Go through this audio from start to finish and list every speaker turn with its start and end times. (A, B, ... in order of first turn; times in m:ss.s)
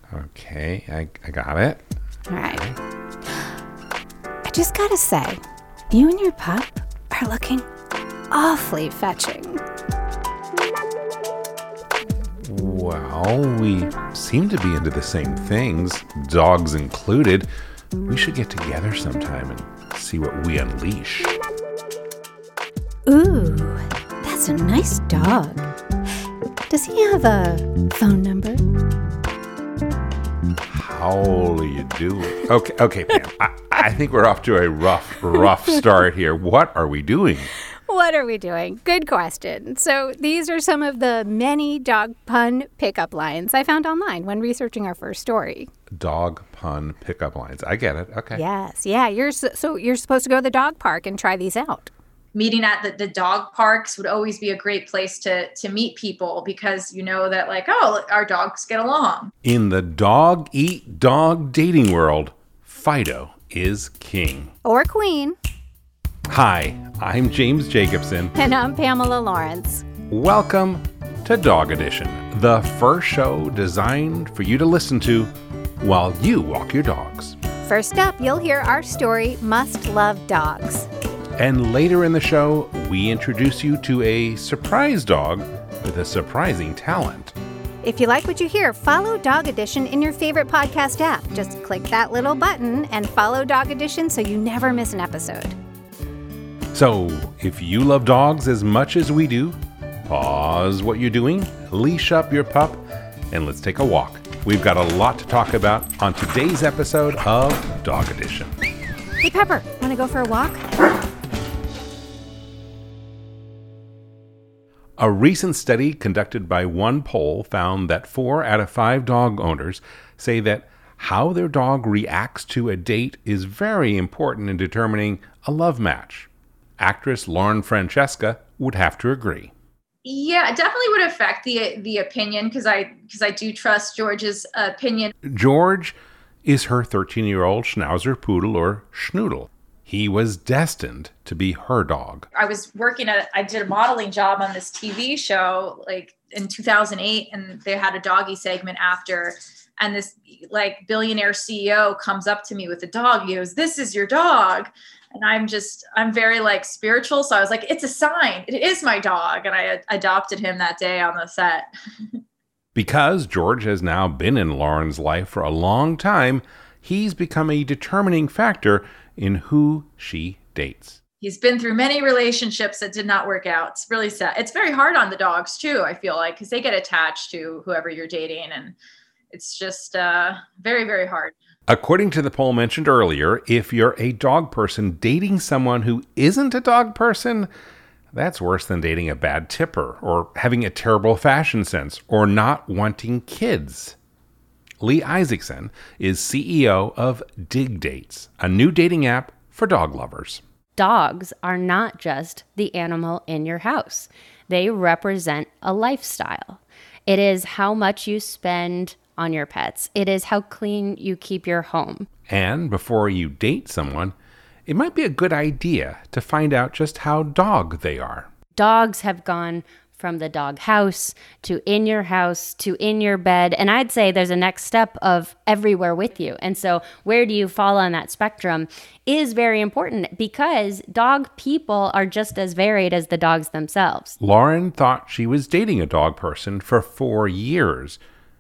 0:00.1-0:01.8 A
0:02.3-0:02.6 B
0:02.5-0:02.8 A
0:04.4-0:07.7 B
0:08.3-0:09.6 B
0:12.4-0:17.5 A
0:18.1-0:21.4 A
0:23.1-0:25.7 B
0:26.7-0:28.7 B
0:30.7-0:37.5 A
0:37.9-0:45.7 B
0:45.9-0:48.4 A
0:48.3-0:51.9 B
0:52.4-0:59.3 C
0:59.4-1:04.5 A
1:04.6-1:05.4 B
1:06.3-1:08.3 A
1:08.4-1:09.8 B
1:10.1-1:17.4 A
1:17.7-1:20.9 B
1:21.4-1:27.3 A
1:27.8-1:35.6 B
1:36.7-1:39.6 A
1:40.1-1:48.5 A
1:49.2-1:50.6 B
1:55.0-2:09.5 A
2:10.0-2:15.1 C
2:15.2-2:22.3 A
2:22.4-2:41.7 C
2:42.8-2:51.0 A
2:51.2-2:58.8 C
2:59.3-3:01.3 C
3:01.7-3:07.5 A
3:08.1-3:14.0 A
3:14.8-3:20.4 A
3:20.8-3:32.1 D
3:32.3-3:34.1 A
3:34.7-3:38.3 A
3:38.6-3:54.2 D
3:54.2-3:58.0 A